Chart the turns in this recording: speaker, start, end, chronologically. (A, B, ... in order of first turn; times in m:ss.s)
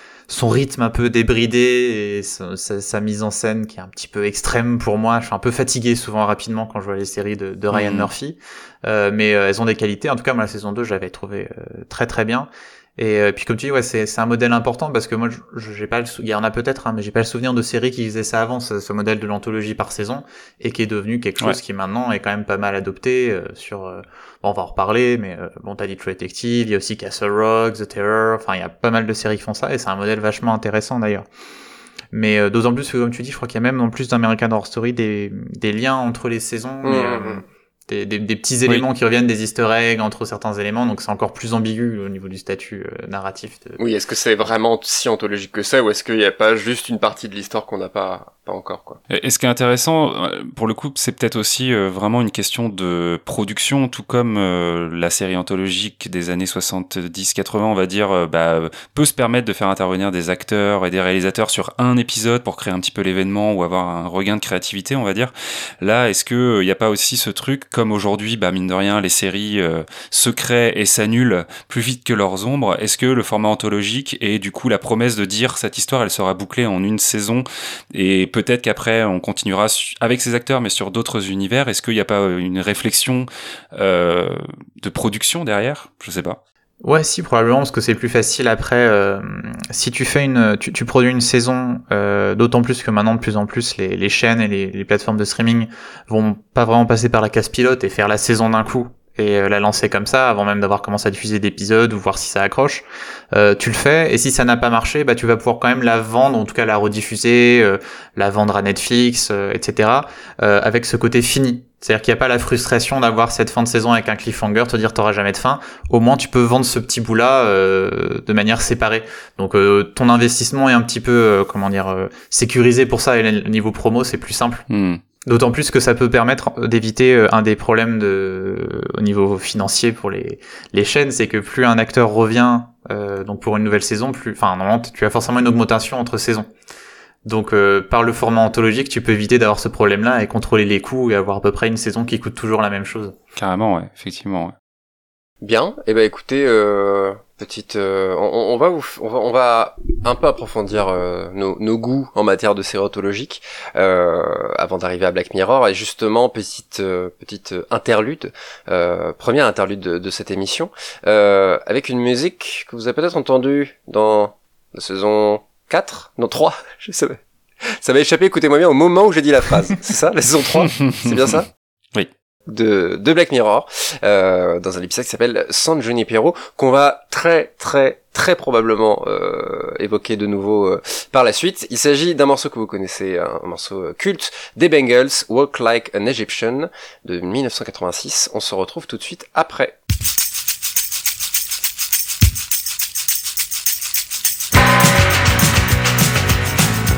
0:00.3-0:31.3 A
0:07.7-0:08.1 B
0:32.1-0:43.8 A
0:36.8-0:37.4 C
0:43.8-0:49.0 C
0:49.1-1:26.4 B
1:26.8-2:04.6 A
2:04.7-2:05.0 B
2:05.3-2:16.5 A
2:17.2-2:23.2 A
2:23.4-2:24.5 B
2:25.4-2:51.5 C
2:50.8-2:51.2 B
2:52.5-3:09.8 C